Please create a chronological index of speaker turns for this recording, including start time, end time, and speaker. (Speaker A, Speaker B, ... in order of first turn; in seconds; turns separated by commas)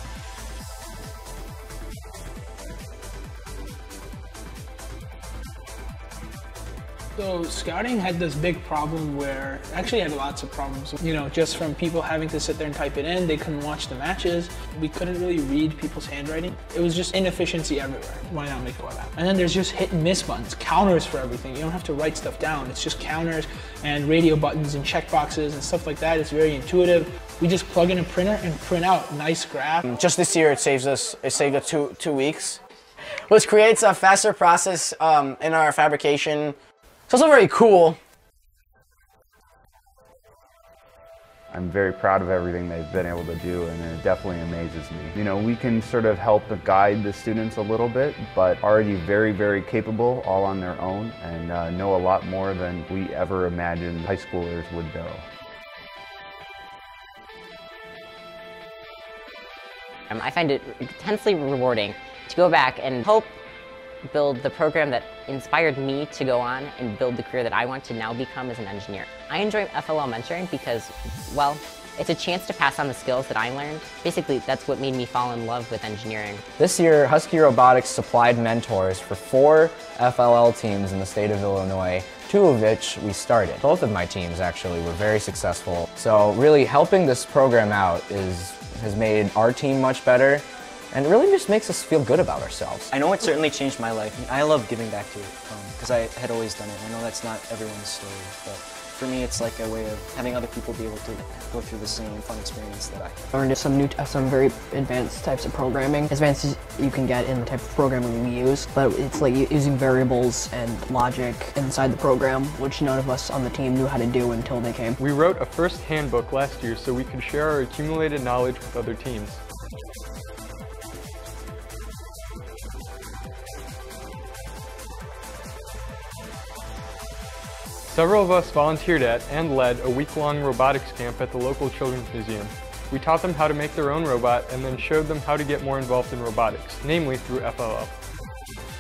Speaker A: 7.2-29.8, Speaker B: 29.9-32.6, Speaker B: 33.3-36.5, Speaker B: 37.1-38.0, Speaker C: 41.5-55.3, Speaker D: 60.1-63.3, Speaker D: 64.1-76.4, Speaker E: 76.6-92.9, Speaker F: 92.9-103.3, Speaker G: 103.3-115.0, Speaker H: 115.0-119.4, Speaker H: 127.9-137.9